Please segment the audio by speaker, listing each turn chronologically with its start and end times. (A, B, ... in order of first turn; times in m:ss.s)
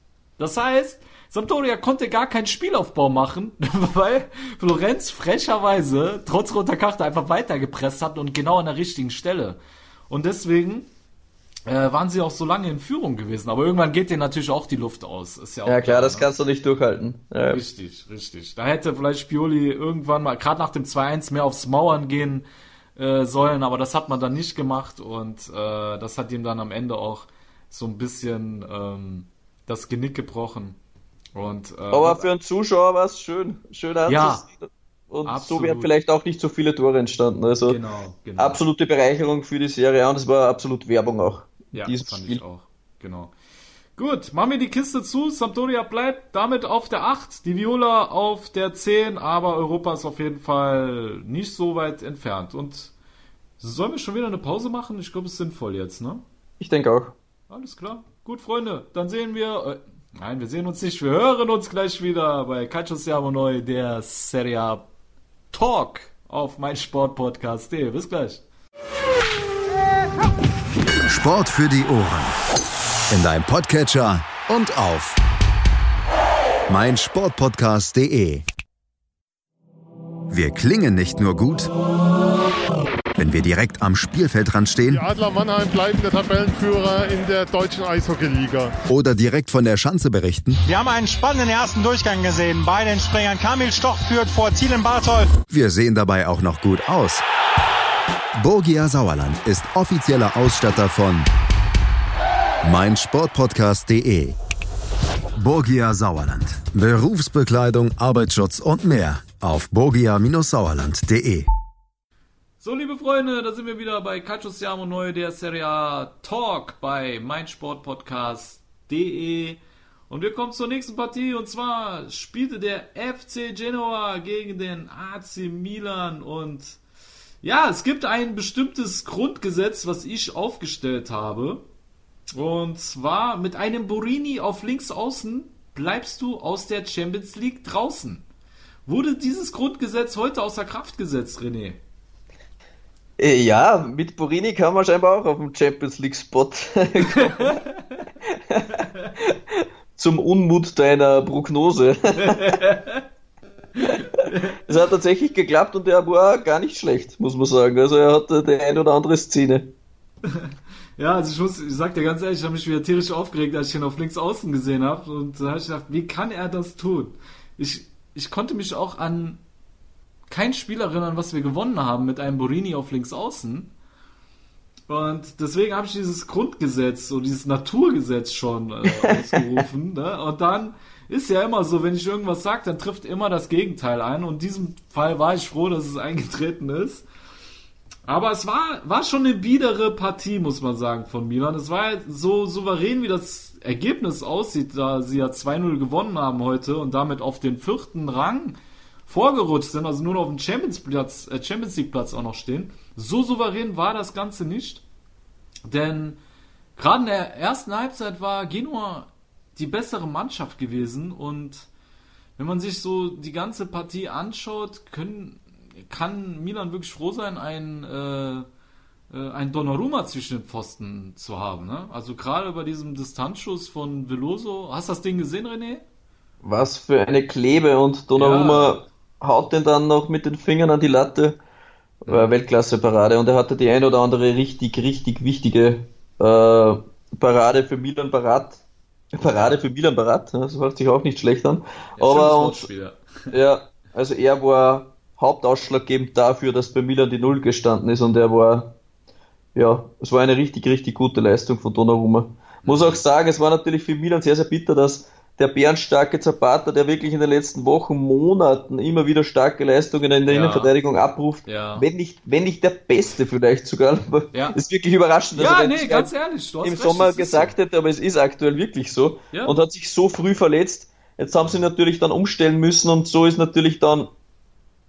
0:00.4-0:10.9 A
0:11.7-0:16.3 A
0:15.6-0:17.6 B
0:17.5-0:22.4 A
0:23.0-0:30.8 A
0:31.3-0:32.3 A
0:31.9-0:37.8 B
0:34.1-0:34.4 A
0:35.2-0:35.9 A
0:37.6-0:38.6 A
0:38.4-0:42.4 B
0:41.7-0:43.3 A
0:44.0-0:52.9 A
0:53.6-0:56.2 A
0:56.6-0:57.1 B
0:57.5-1:04.8 A
1:05.5-1:08.4 A
1:11.0-1:12.3 C
1:13.1-1:15.2 C
1:16.7-1:18.4 C
1:20.3-1:21.7 C
1:23.2-1:25.0 C
1:24.9-1:28.7 D
1:28.9-1:30.6 C
1:30.6-1:35.3 E
1:35.5-1:37.2 C
1:38.4-1:41.3 C
1:42.6-1:44.3 C
1:45.3-1:51.5 C
1:52.6-2:06.8 A
2:07.4-2:11.6 A
2:12.4-2:18.2 A
2:18.9-2:21.8 A
2:23.2-2:27.6 B
2:27.5-2:28.0 A
2:28.5-2:32.6 B
2:32.2-2:33.0 A
2:33.8-2:34.6 A
2:34.7-2:39.7 B
2:40.3-2:49.4 A
2:50.3-2:53.7 A
2:54.9-3:07.0 A
2:58.9-2:59.4 B
3:08.1-3:24.8 A
3:25.7-3:26.2 A
3:26.8-3:31.7 A
3:32.4-3:38.5 A
3:39.1-3:45.8 A
3:46.4-3:51.4 B
3:48.1-3:48.8 A
3:52.0-3:58.6 B
3:59.1-4:02.7 B
3:59.2-3:59.6 A
4:02.0-4:03.0 A
4:03.3-4:08.7 B
4:09.5-4:26.1 B
4:12.6-4:13.0 A
4:20.3-4:20.7 A
4:21.4-4:21.8 A
4:25.3-4:27.5 A
4:26.6-4:34.1 B